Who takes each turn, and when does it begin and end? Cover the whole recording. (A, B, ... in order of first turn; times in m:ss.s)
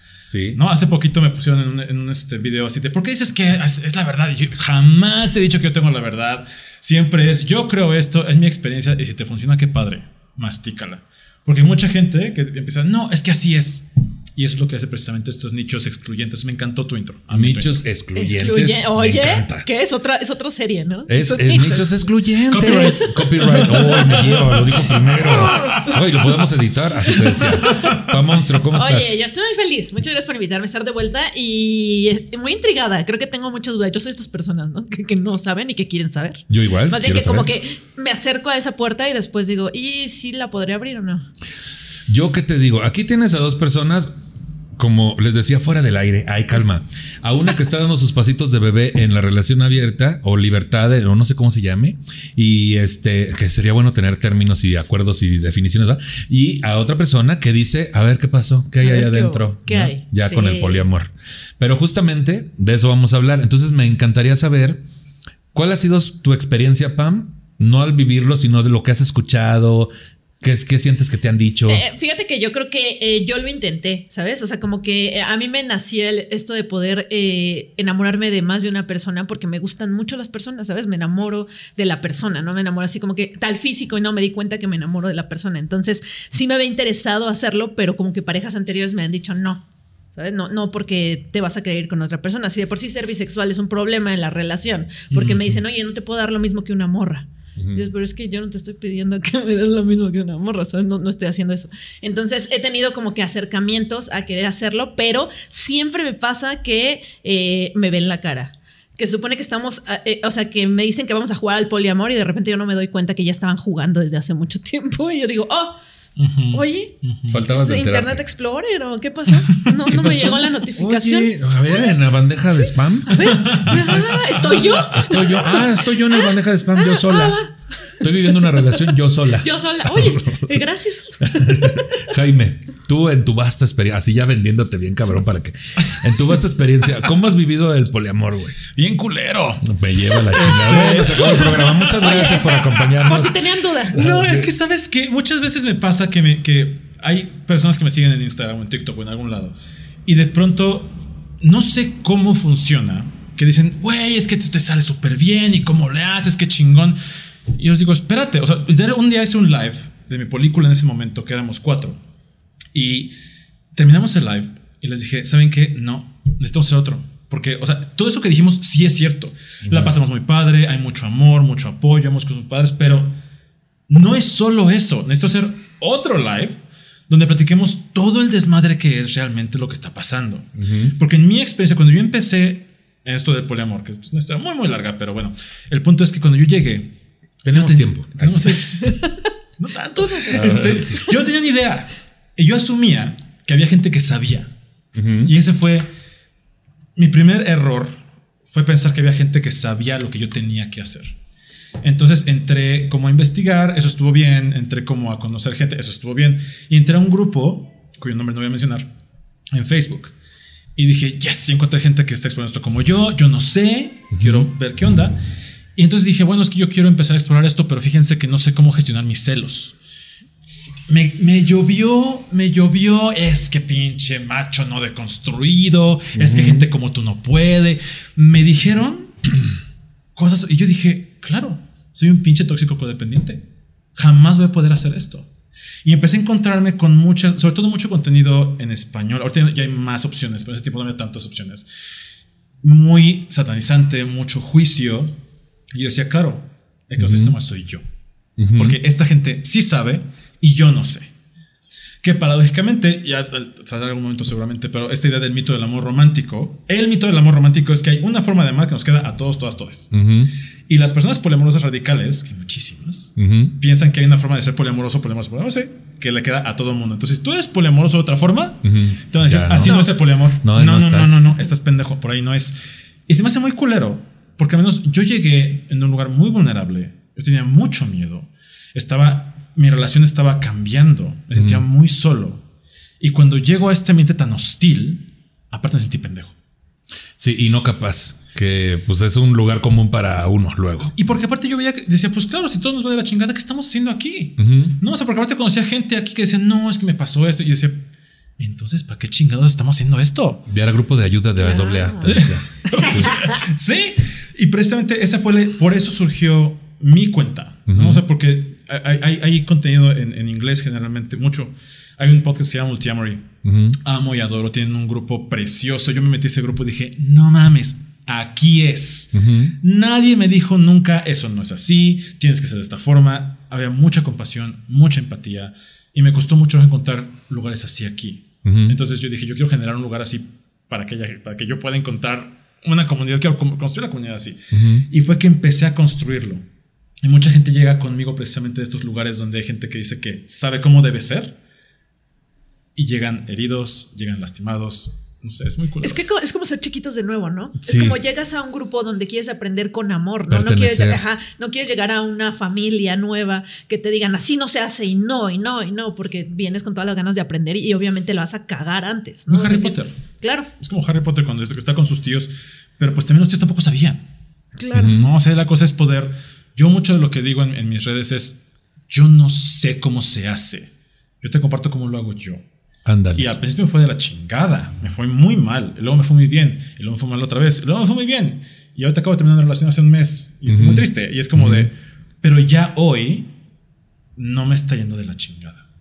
0:00.2-0:00.6 A
0:00.5-0:17.8 B
0:17.3-0:19.7 A
0:18.2-0:22.0 C
0:21.1-0:29.2 A
0:22.5-0:25.8 B
0:25.4-0:25.9 C
0:27.3-0:28.0 B
0:28.7-0:41.3 C
0:36.5-0:37.5 A
0:42.1-0:44.1 A
0:44.8-1:04.8 A
0:58.8-1:00.8 C
1:05.5-1:11.8 A
1:11.7-1:29.6 C
1:30.1-1:55.8 C
1:35.1-1:35.6 B
1:37.6-1:37.9 A
1:56.2-1:57.4 B
1:56.5-1:56.9 C
1:57.3-1:58.2 A
1:57.5-2:01.3 C
1:59.9-2:07.4 A
2:02.5-2:05.5 C
2:03.2-2:05.6 B
2:06.8-2:08.4 C
2:08.0-2:10.6 A
2:09.4-2:12.1 C
2:11.2-2:18.6 A
2:18.7-2:22.9 B
2:19.6-2:23.4 A
2:22.0-2:24.0 C
2:23.9-2:24.5 A
2:23.9-2:37.0 B
2:37.6-2:42.0 B
2:42.7-2:43.1 B
2:43.7-2:53.2 B
2:49.6-2:50.0 A
2:53.9-3:07.0 B
3:00.6-3:00.9 A
3:07.4-3:08.6 A
3:07.5-3:09.0 B
3:08.4-3:09.3 C
3:09.6-3:14.5 B
3:09.9-3:11.1 C
3:10.3-3:11.0 A
3:14.9-3:15.3 A
3:15.2-3:15.9 B
3:17.0-3:21.2 B
3:21.8-3:28.9 B
3:29.5-3:30.1 B
3:30.8-3:35.2 B
3:34.1-3:34.5 A
3:35.8-3:39.7 B
3:40.9-3:49.1 B
3:46.1-3:46.7 A
3:50.2-3:53.4 B
3:54.0-3:55.3 B
3:55.8-4:01.7 B
4:02.6-4:05.1 B
4:05.7-4:07.8 B
4:07.0-4:07.4 A
4:08.4-4:08.8 A
4:08.5-4:11.1 B
4:12.0-4:19.9 B
4:19.9-4:20.3 A
4:20.7-4:32.6 B
4:23.2-4:23.5 A
4:28.6-4:29.8 A
4:29.6-4:29.9 C
4:30.4-4:31.3 A
4:33.1-4:42.4 B
4:41.3-4:41.6 A
4:43.0-4:46.3 B
4:47.2-4:50.9 A
4:50.8-4:57.8 B
4:54.4-4:54.8 A
4:58.4-5:00.4 B
5:00.5-5:03.1 A
5:01.4-5:03.1 C
5:02.0-5:13.2 B
5:07.7-5:08.0 A
5:13.4-5:13.8 A
5:13.8-5:36.4 B
5:19.1-5:19.5 A
5:28.4-5:28.8 A
5:34.5-5:34.9 A
5:37.0-5:41.4 B
5:42.8-5:46.0 B
5:45.8-6:00.5 C
5:47.6-5:48.0 A
5:50.3-5:51.0 A
5:59.3-5:59.9 B
6:00.6-6:04.0 B
6:04.6-6:04.9 C
6:04.7-6:05.0 A
6:04.8-6:10.7 B
6:11.2-6:12.4 B
6:12.8-6:13.4 A
6:13.1-6:23.3 B
6:20.5-6:21.7 A
6:24.2-6:25.6 B